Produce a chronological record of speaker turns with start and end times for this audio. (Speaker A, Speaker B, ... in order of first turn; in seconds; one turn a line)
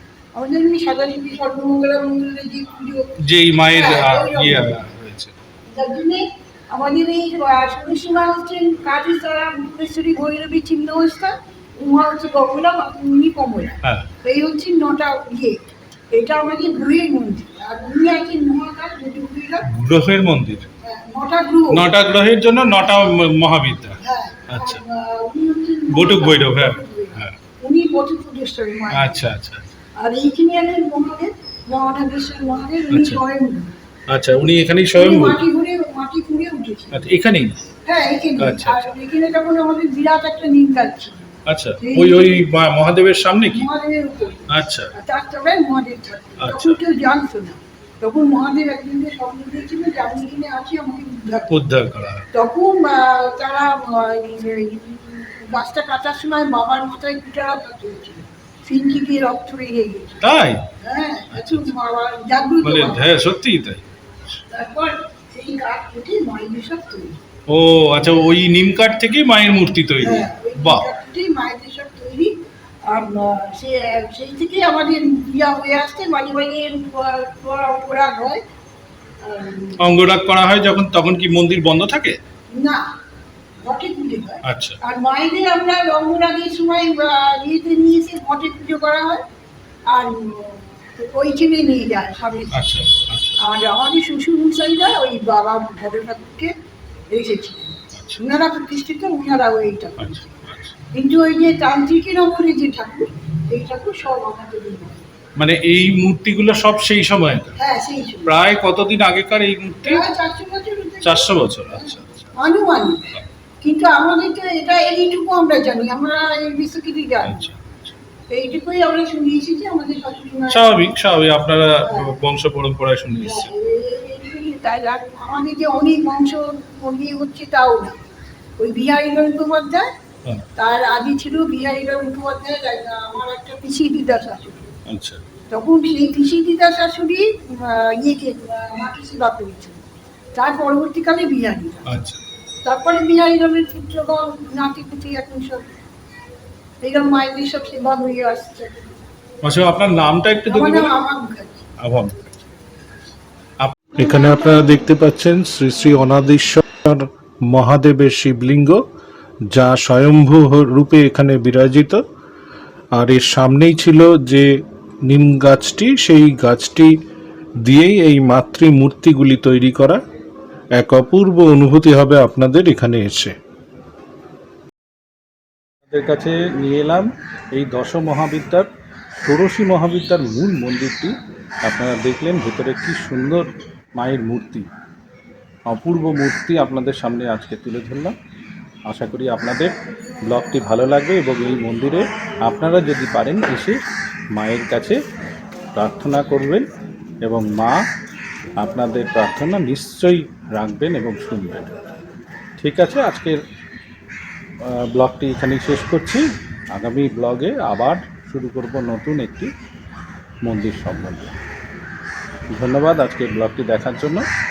Speaker A: 0.3-4.8
Speaker B: 3.2-5.3
Speaker A: 5.7-19.7
Speaker B: 19.7-20.7
Speaker A: 20.8-21.9
Speaker B: 21.7-24.0
Speaker A: 24.0-29.2
Speaker B: 24.5-24.8
Speaker B: 25.9-27.3
Speaker B: 28.9-29.6
Speaker A: 30.0-33.8
Speaker B: 32.9-33.2
Speaker B: 34.1-35.4
Speaker A: 34.9-37.1
Speaker B: 36.9-37.6
Speaker A: 37.9-42.5
Speaker B: 38.4-38.9
Speaker B: 41.5-43.6
Speaker A: 43.4-51.5
Speaker B: 44.5-44.8
Speaker B: 46.4-46.8
Speaker B: 51.5-52.2
Speaker A: 52.3-60.2
Speaker B: 60.2-60.7
Speaker A: 60.8-63.1
Speaker B: 62.6-63.8
Speaker A: 64.5-67.2
Speaker B: 67.5-70.8
Speaker A: 70.0-78.4
Speaker A: 79.2-79.8
Speaker B: 79.8-82.2
Speaker A: 82.5-82.8
Speaker A: 83.6-89.2
Speaker B: 84.5-84.8
Speaker A: 89.9-92.7
Speaker B: 92.6-93.4
Speaker A: 93.4-96.5
Speaker A: 97.1-100.3
Speaker B: 97.9-98.3
Speaker B: 100.0-100.7
Speaker A: 100.9-105.0
Speaker B: 105.4-107.5
Speaker A: 107.6-108.3
Speaker B: 108.3-110.0
Speaker A: 109.9-117.5
Speaker B: 111.0-112.3
Speaker B: 117.3-117.9
Speaker A: 118.3-120.9
Speaker B: 120.5-123.5
Speaker A: 121.8-122.2
Speaker A: 123.2-128.0
Speaker A: 128.6-129.9
Speaker A: 130.6-134.7
Speaker C: 134.9-135.2
Speaker A: 135.5-141.8
Speaker B: 141.9-142.2
Speaker A: 142.6-145.7
Speaker A: 146.8-149.0
Speaker B: 149.4-150.9
Speaker A: 150.5-151.6
Speaker B: 151.8-152.2
Speaker C: 154.0-158.8
Speaker A: 154.1-154.3
Speaker C: 159.5-162.0
Speaker C: 162.9-164.5
Speaker C: 165.1-166.9
Speaker C: 167.6-170.0
Speaker C: 170.8-173.4
Speaker C: 175.9-178.7
Speaker C: 179.2-184.7
Speaker C: 185.7-188.2
Speaker C: 188.9-189.7
Speaker C: 190.3-193.8
Speaker C: 194.3-195.0
Speaker C: 195.8-196.7
Speaker C: 197.2-197.8
Speaker C: 198.6-201.7
Speaker C: 202.6-203.4
Speaker C: 204.6-209.5
Speaker C: 210.5-211.3
Speaker C: 212.5-214.3